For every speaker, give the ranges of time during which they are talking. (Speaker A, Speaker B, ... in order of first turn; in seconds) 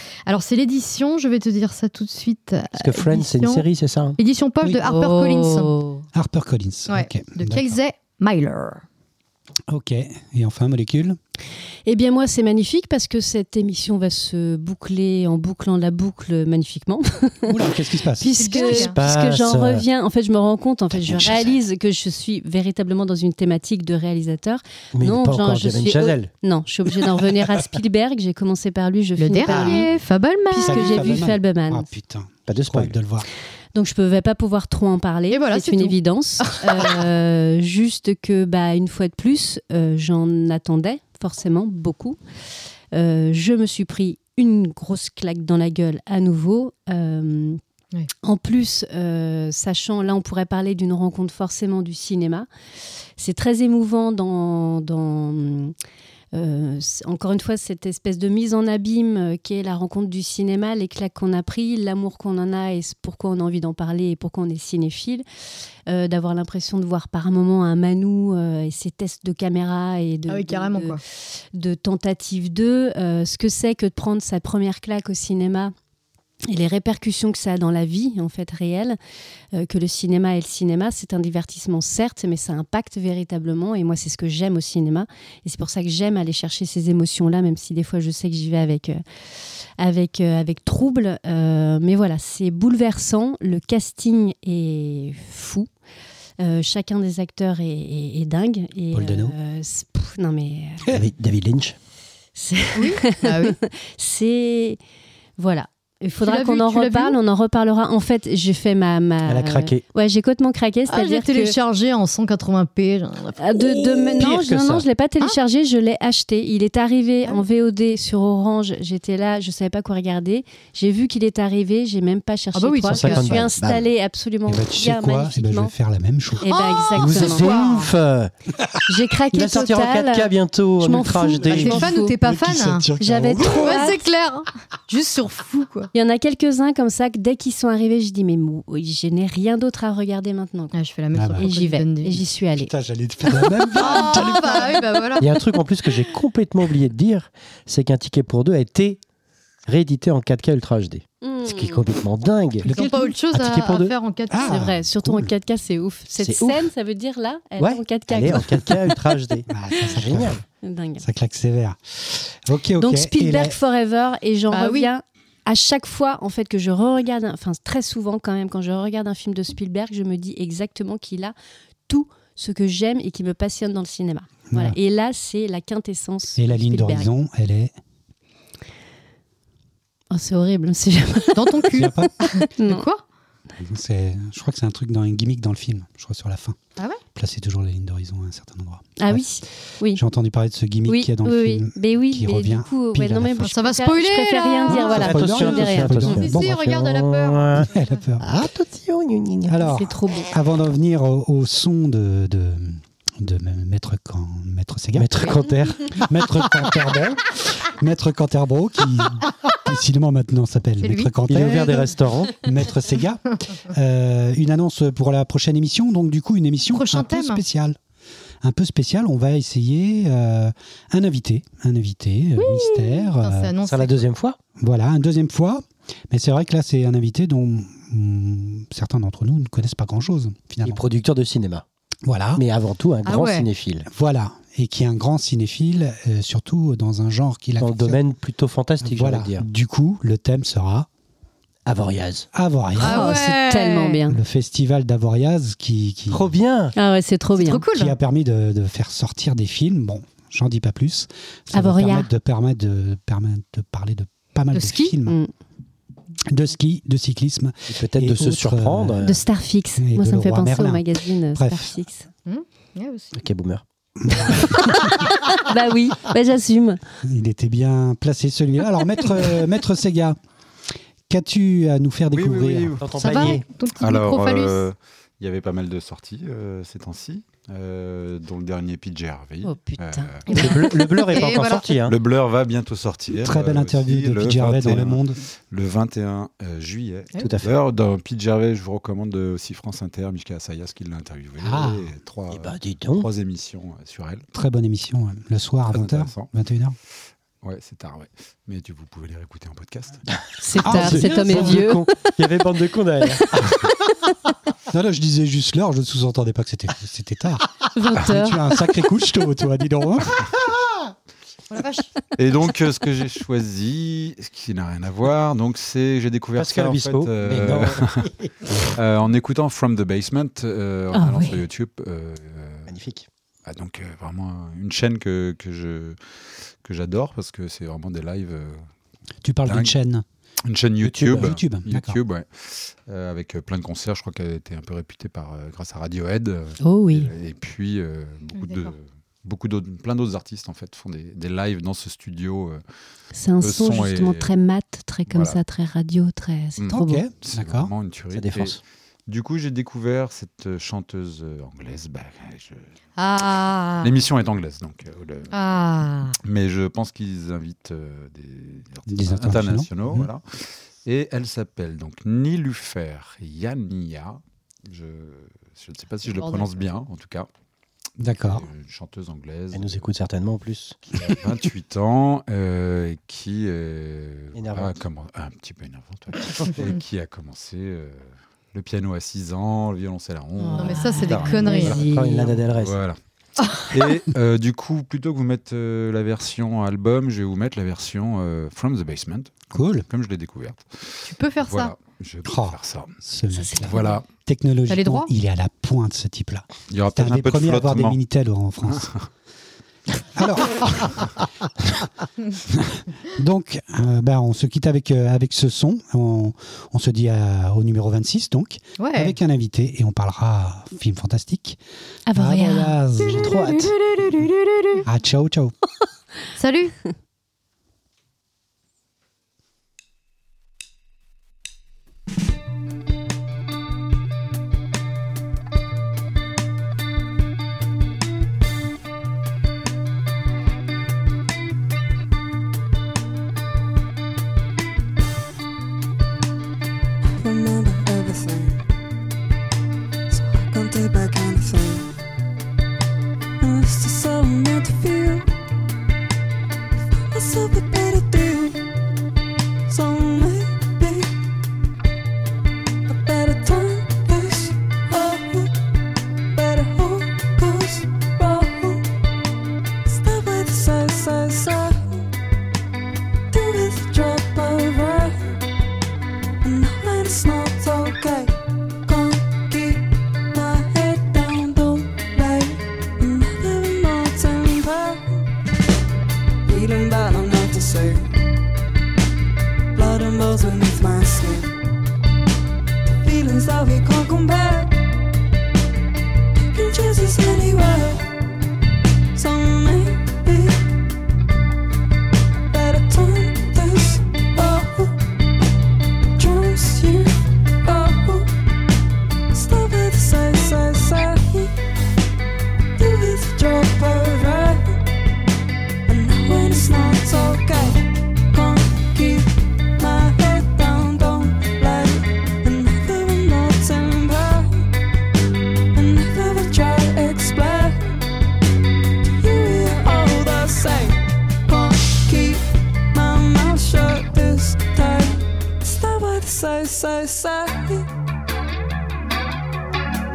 Speaker A: 0.3-3.6, 4.2-5.7, 6.9-8.8, 18.3-18.9, 29.2-31.3, 35.3-37.0, 70.3-71.0, 102.7-103.6, 106.2-107.2, 110.9-114.1, 122.5-123.4, 126.5-127.9, 131.5-132.9, 133.5-135.9, 140.7-142.2, 143.7-145.4, 152.7-154.6, 164.5-164.9, 181.3-183.0, 193.4-195.1, 196.1-198.0, 210.8-211.1, 216.7-217.4, 223.2-224.1, 233.1-233.5, 242.8-244.0, 247.3-247.9, 254.5-254.9, 262.2-263.2, 273.0-274.6, 280.3-281.7, 311.5-311.9, 338.3-338.7, 353.0-353.9, 355.3-356.1, 366.1-366.5, 380.6-381.8, 391.0-391.7, 394.7-395.1, 408.8-409.1, 413.0-414.8, 416.4-416.7
Speaker B: 2.8-4.2, 18.8-19.8, 20.9-21.6, 24.9-26.3, 32.5-32.9, 100.9-101.8, 114.2-114.8, 122.9-123.8, 127.0-128.3, 129.3-131.9, 145.2-149.0, 149.7-152.7, 153.3-153.9, 156.2-156.7, 157.6-160.4, 194.7-199.6, 204.9-206.6, 211.2-212.4, 223.6-224.4, 230.6-231.6, 232.3-233.9, 237.6-239.4, 241.7-242.3, 246.1-246.7, 257.7-259.2, 263.1-263.6, 272.8-273.4, 280.3-281.9, 287.2-287.5, 292.3-293.1, 300.6-303.7, 316.4-318.3, 322.7-323.1, 330.8-331.3, 348.1-348.6, 369.5-371.3, 374.3-374.8, 381.7-382.8, 413.1-413.8
Speaker C: 4.8-6.0, 11.8-29.9, 30.5-31.9, 33.7-42.2, 42.9-47.6, 48.2-52.5, 53.2-55.7, 56.3-65.2, 65.9-71.0, 71.5-75.7, 76.5-79.0, 79.5-89.0, 89.8-95.7, 96.4-100.9, 102.3-104.8, 105.4-111.5, 113.4-125.7, 126.4-127.6, 128.9-132.1, 133.0-134.0, 135.9-140.8, 141.4-142.7, 151.2-151.8, 154.4-158.9, 160.6-161.0, 162.8-171.3, 171.9-177.1, 180.1-182.8, 189.0-190.0, 190.8-196.2, 199.6-200.3, 222.4-222.9, 242.8-244.2, 246.8-247.6, 251.5-252.1, 259.0-262.1, 264.5-266.8, 279.4-281.0, 300.4-302.1, 307.7-308.4, 320.9-321.4, 336.6-337.1, 343.1-347.0, 380.4-382.4, 393.3-394.0, 412.1-412.8
Speaker D: 6.1-7.8, 9.7-11.2, 17.4-18.7, 29.5-29.9, 30.6-33.3, 98.9-99.3, 109.2-109.8, 124.5-126.4, 131.9-133.8, 141.1-141.5, 142.6-145.0, 152.6-153.1, 154.3-155.3, 159.5-160.4, 161.0-163.6, 174.5-174.8, 176.3-177.7, 181.7-182.1, 183.6-186.6, 187.1-189.3, 189.8-193.5, 194.7-196.6, 197.6-198.3, 199.5-217.8, 218.4-223.5, 224.6-230.8, 232.1-232.4, 233.9-238.0, 238.8-240.9, 242.3-243.2, 244.1-246.3, 247.7-255.2, 256.3-259.2, 259.8-261.8, 264.0-265.1, 267.0-270.2, 271.1-272.8, 283.1-285.2, 291.4-291.9, 294.3-296.8, 300.6-301.6, 304.7-310.4, 329.2-330.0, 331.1-332.0, 346.7-347.7, 358.9-360.1, 368.0-368.4, 389.5-389.9, 392.2-398.9, 400.1-401.1, 402.6-411.6, 412.1-413.3, 414.8-415.5
Speaker E: 272.1-280.4, 281.7-294.2, 295.7-296.3, 297.4-300.0, 312.2-322.7, 323.4-328.7, 329.4-329.8, 330.4-342.6, 343.4-344.3, 345.1-345.4, 346.6-352.6, 353.8-355.3, 356.2-367.3, 368.1-369.9, 370.9-381.9, 382.4-383.0, 383.5-393.0, 393.6-394.1, 396.7-398.0, 398.6-399.0
Speaker F: 437.0-438.6, 440.1-441.9, 443.4-445.3, 446.9-448.7, 449.7-451.2, 452.9-455.6, 456.3-458.9, 459.8-462.1, 463.3-465.4, 466.4-475.2, 476.4-478.1, 479.7-481.5, 483.0-484.8, 486.4-488.1, 489.1-490.7, 492.5-495.0, 496.1-498.3, 499.3-501.5, 502.7-504.8, 505.9-514.7, 515.7-518.0, 519.2-527.9